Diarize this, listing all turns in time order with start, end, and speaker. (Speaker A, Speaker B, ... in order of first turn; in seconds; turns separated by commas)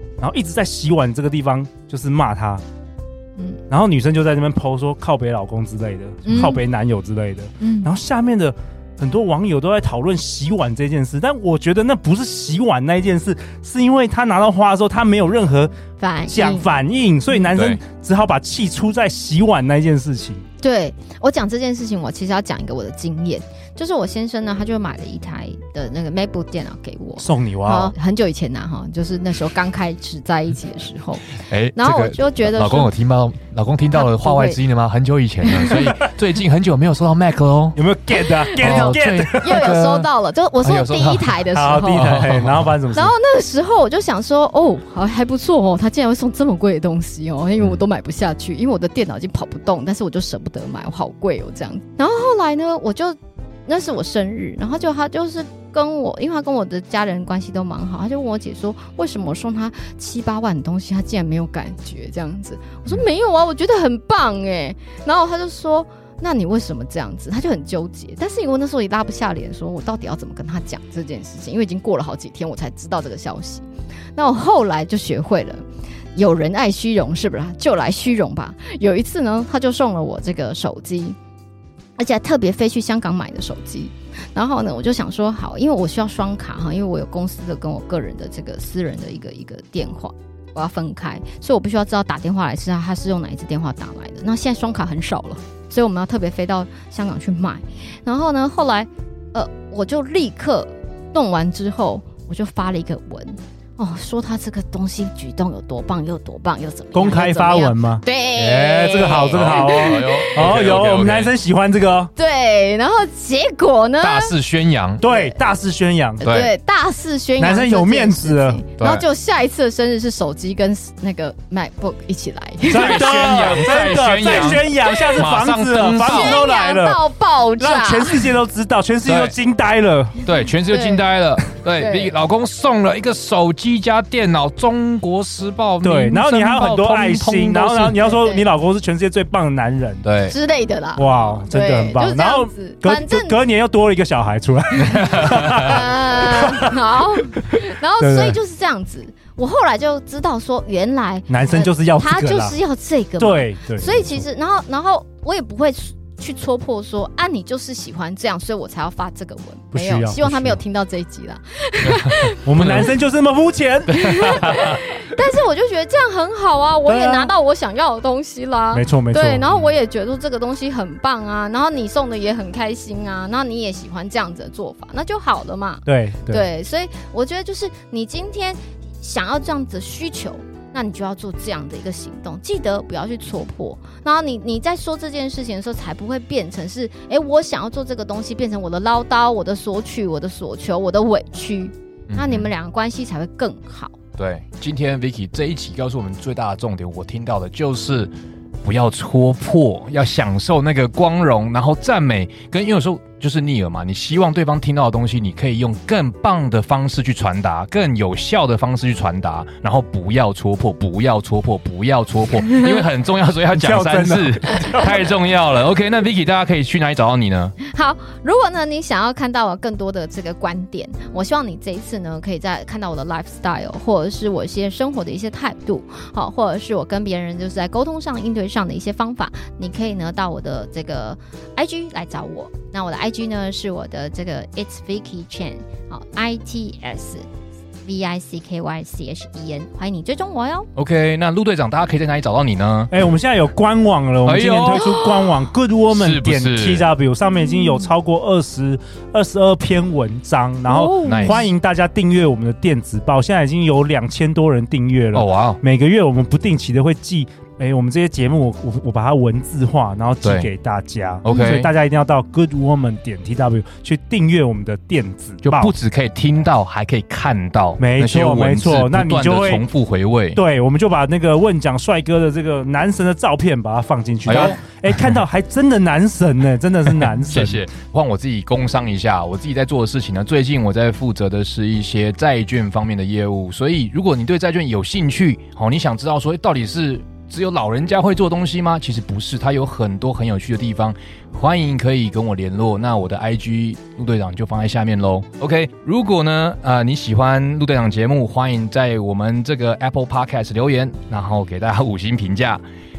Speaker A: 0.2-2.6, Speaker A: 3.7-15.7, Speaker B: 6.2-6.6, Speaker B: 7.6-7.9, Speaker B: 16.0-16.7, Speaker A: 16.3-20.4, Speaker C: 17.5-17.8, Speaker B: 20.6-31.2, Speaker A: 27.2-27.9, Speaker C: 31.5-37.8, Speaker B: 31.8-32.9, Speaker B: 33.9-34.6, Speaker B: 35.6-35.9, Speaker A: 37.7-39.7, Speaker B: 38.1-75.6, Speaker C: 38.5-40.1, Speaker C: 40.6-42.7, Speaker A: 41.5-43.1, Speaker B: 76.1-81.2, Speaker B: 82.0-110.5, Speaker A: 106.9-108.0, Speaker C: 108.3-111.3, Speaker A: 108.6-112.1, Speaker B: 112.2-114.3, Speaker C: 114.0-115.0, Speaker A: 115.0-116.2, Speaker B: 115.0-115.3, Speaker B: 116.2-128.4, Speaker C: 116.2-116.5, Speaker A: 117.4-118.6, Speaker C: 118.8-119.0, Speaker A: 122.7-127.0, Speaker C: 122.7-126.4, Speaker A: 127.6-130.2, Speaker C: 129.0-129.3, Speaker C: 130.2-138.0, Speaker B: 130.7-131.1, Speaker B: 131.8-132.1, Speaker A: 135.8-140.1, Speaker B: 138.0-138.4, Speaker C: 140.0-140.3, Speaker B: 140.3-143.4, Speaker A: 140.9-146.7, Speaker C: 145.1-145.7, Speaker B: 145.2-162.8, Speaker A: 147.5-148.4, Speaker A: 151.3-152.6, Speaker A: 153.2-154.2, Speaker A: 159.7-160.6, Speaker C: 161.8-162.9, Speaker A: 162.4-164.8, Speaker B: 164.0-193.9, Speaker C: 164.2-164.8, Speaker A: 166.8-167.3, Speaker A: 168.7-169.4, Speaker A: 175.8-176.4, Speaker C: 192.1-192.5, Speaker C: 194.2-198.1, Speaker C: 198.6-217.5, Speaker A: 213.6-215.0, Speaker B: 217.6-237.2, Speaker B: 237.8-240.7, Speaker C: 240.8-242.9, Speaker A: 242.9-265.7, Speaker C: 244.2-245.3, Speaker C: 245.9-246.9, Speaker B: 247.3-247.7, Speaker B: 250.6-251.5, Speaker C: 251.0-251.5, Speaker C: 255.1-255.6, Speaker C: 260.2-260.5, Speaker C: 261.2-261.7, Speaker B: 261.3-261.6, Speaker C: 265.4-270.4, Speaker A: 267.8-269.6, Speaker A: 270.3-277.6, Speaker C: 274.2-274.9, Speaker C: 277.0-302.6